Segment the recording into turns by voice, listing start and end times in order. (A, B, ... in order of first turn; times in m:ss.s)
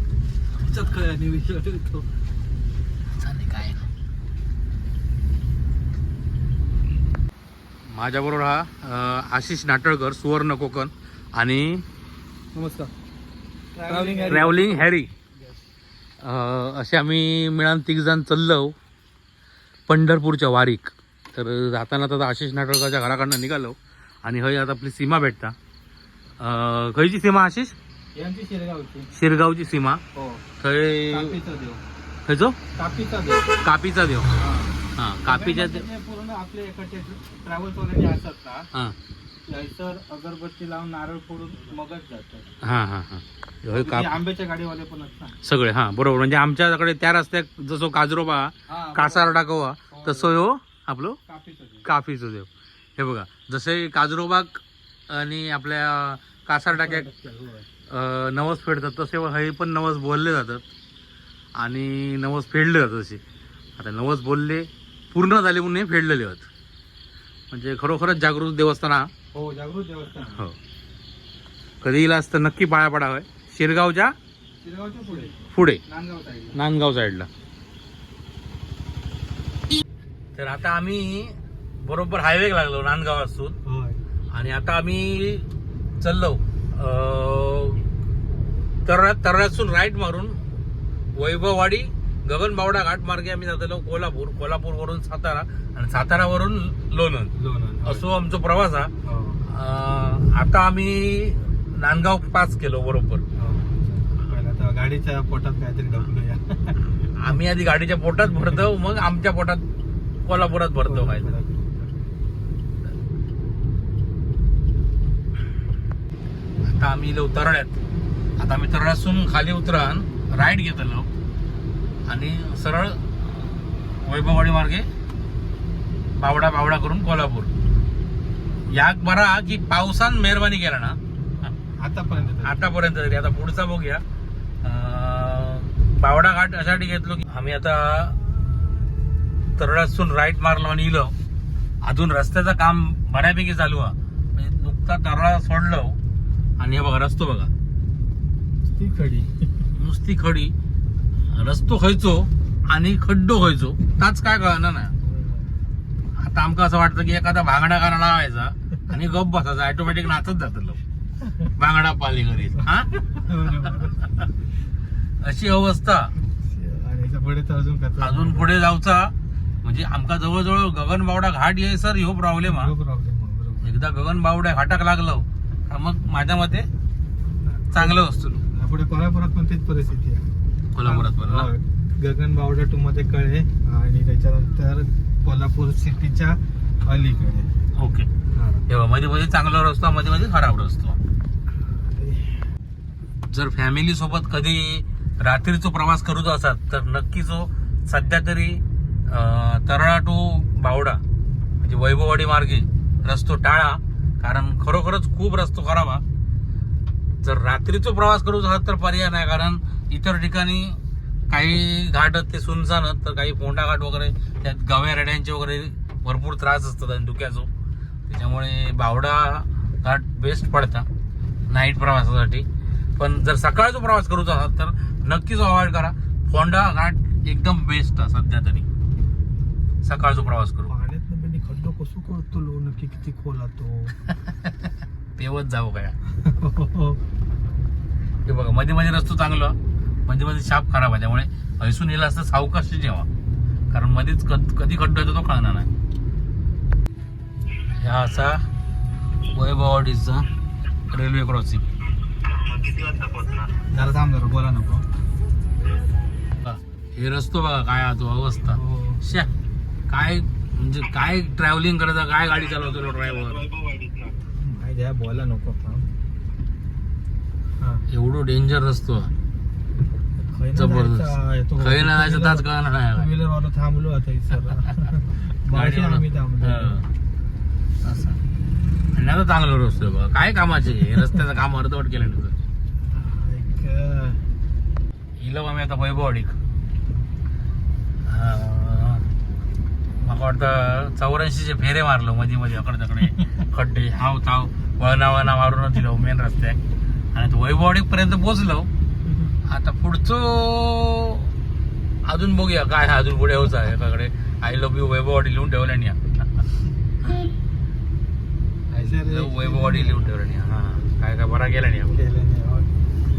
0:00.6-0:02.1 A
0:03.2-0:03.9 B
0:07.8-0:11.8 B
0:12.5-0:12.9 A
0:13.7-0:14.8 C
0:13.8-0:14.8 A
0:14.3-0:15.1 B
0:16.2-0:18.7 B
0:19.9-0:25.6 B
0:26.4-0:27.8 B
0:28.1-0:29.1 C
0:29.1-0:30.0 B
0:30.1-0:30.4 C
0:30.6-0:31.4 B
0:31.1-0:31.8 C
0:32.2-0:32.6 B
0:32.7-0:33.6 C
0:33.6-0:34.3 B
0:34.3-0:38.7 C
0:34.9-0:35.8 B
0:39.4-0:42.5 C
0:42.6-0:44.2 B
0:43.7-0:45.4 C
0:45.4-0:51.2 B
0:48.7-0:49.3 C
0:49.9-0:50.4 C
0:51.3-0:51.8 C
0:51.8-0:57.1 B
0:56.7-0:57.6 C
0:57.9-1:00.6 B
1:01.6-1:03.2 B
1:03.8-1:06.5 B
1:07.5-1:09.1 B
1:09.3-1:10.4 C
1:10.3-1:10.6 B
1:11.8-1:14.1 B
1:14.6-1:16.6 C
1:15.5-1:15.8 B
1:16.5-1:17.3 B
1:20.4-1:23.6 B
1:23.6-1:24.0 C
1:24.3-1:25.5 B
1:26.0-1:27.8 B
1:28.8-1:30.4 B
1:31.2-1:37.3 B
1:37.4-1:38.1 C
1:37.8-1:38.9 B
1:39.0-1:39.4 C
1:39.4-1:43.2 B
1:43.4-1:47.4 C
1:47.1-1:49.6 B
1:48.3-1:48.6 C
1:50.2-1:51.4 B
1:50.8-1:52.0 C
1:56.6-1:57.8 B
1:58.4-2:01.1 B
2:02.1-2:04.9 B
2:06.2-2:07.5 B
2:08.7-2:11.5 B
2:11.8-2:12.6 C
2:12.4-2:14.0 B
2:14.6-2:18.2 B
2:19.6-2:21.1 B
2:21.8-2:26.0 B
2:26.6-2:27.5 B
2:28.7-2:29.6 C
2:29.7-2:30.5 B
2:31.3-2:34.9 B
2:35.0-2:35.5 C
2:36.2-2:40.8 B
2:41.4-2:42.9 B
2:42.9-2:44.1 C
2:45.2-2:46.1 B
2:46.4-2:48.5 C
2:48.0-2:52.7 B
2:52.4-2:53.8 C
2:53.6-2:56.7 B
2:57.3-3:07.5 C
2:57.7-2:58.4 B
3:00.7-3:01.5 B
3:07.7-3:08.1 B
3:08.3-3:08.6 C
3:08.7-3:11.0 B
3:11.8-3:12.4 C
3:13.3-3:21.0 B
3:21.6-3:26.0 B
3:27.2-3:30.8 B
3:31.3-3:37.5 B
3:38.1-3:40.9 B
3:41.5-3:42.5 B
3:43.0-3:48.6 B
3:49.8-3:50.7 B
3:50.6-3:54.0 C
3:54.0-3:56.0 B
3:56.2-3:57.0 C
3:58.2-4:03.1 B
4:03.7-4:05.7 B
4:07.8-4:08.4 B
4:09.3-4:10.3 B
4:10.9-4:11.6 B
4:13.6-4:14.8 C
4:16.4-4:19.3 B
4:18.6-4:19.0 C
4:19.9-4:23.5 B
4:24.3-4:25.9 C
4:27.6-4:27.8 C
4:27.9-4:29.1 B
4:30.3-4:36.8 C
4:30.5-4:33.1 B
4:35.5-4:36.8 B
4:37.8-4:38.2 B
4:38.9-4:42.4 B
4:42.9-4:44.2 C
4:45.2-4:46.3 B
4:48.0-4:49.0 B
4:50.0-4:56.6 B
4:57.1-4:58.7 B
4:59.5-5:01.3 B
5:02.0-5:06.3 B
5:08.7-5:12.0 B
5:08.8-5:10.1 C
5:11.9-5:12.7 C